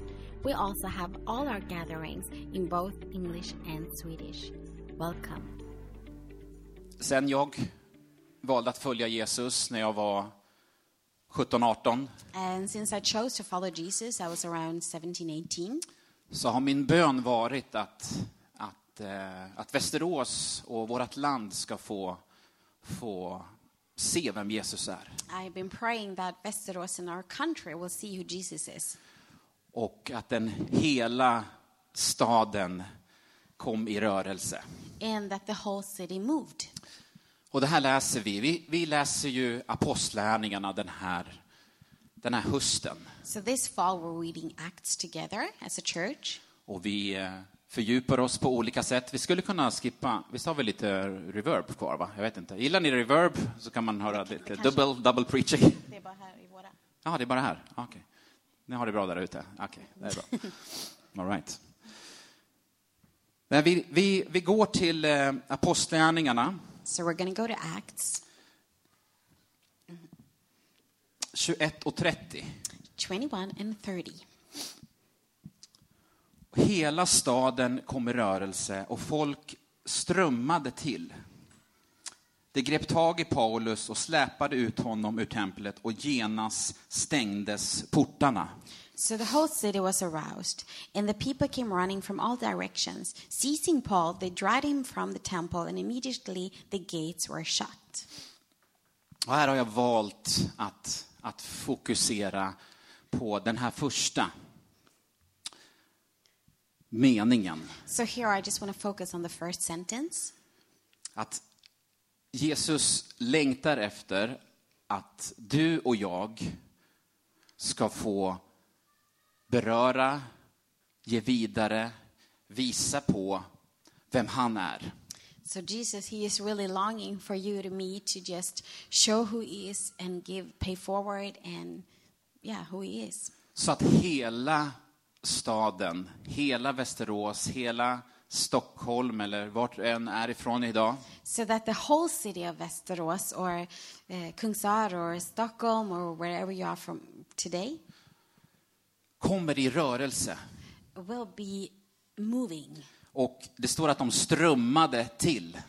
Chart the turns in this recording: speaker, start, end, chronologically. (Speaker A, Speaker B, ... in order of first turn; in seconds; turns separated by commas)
Speaker A: 0.4-5.5, Speaker B: 7.0-7.7, Speaker B: 8.4-10.3, Speaker B: 11.3-12.1, Speaker A: 12.3-15.8, Speaker B: 16.3-22.2, Speaker B: 22.8-23.5, Speaker B: 24.0-25.2, Speaker A: 25.3-29.0, Speaker B: 29.7-32.9, Speaker B: 33.6-34.6, Speaker A: 35.0-36.7, Speaker B: 37.5-41.4, Speaker B: 42.2-43.1, Speaker A: 43.2-46.4, Speaker B: 46.7-55.8, Speaker A: 54.2-54.8, Speaker A: 55.8-56.7, Speaker B: 57.0-58.0, Speaker B: 58.7-61.6, Speaker B: 63.5-66.6, Speaker A: 66.8-68.2, Speaker B: 71.3-72.5, Speaker A: 73.0-74.3, Speaker B: 76.5-81.1, Speaker B: 82.5-88.5, Speaker A: 89.0-98.1, Speaker B: 99.3-102.5, Speaker B: 103.1-104.3, Speaker B: 106.9-107.8, Speaker A: 107.9-110.3, Speaker B: 111.2-111.4, Speaker B: 112.3-114.4, Speaker B: 114.9-116.6, Speaker B: 117.6-118.4, Speaker B: 119.5-120.2, Speaker B: 121.0-121.9, Speaker B: 122.5-123.4, Speaker B: 124.1-124.9, Speaker A: 125.5-131.9, Speaker A: 132.4-133.3, Speaker B: 133.6-141.0, Speaker A: 141.2-147.8, Speaker B: 149.2-150.4, Speaker A: 151.0-152.9, Speaker B: 153.1-155.6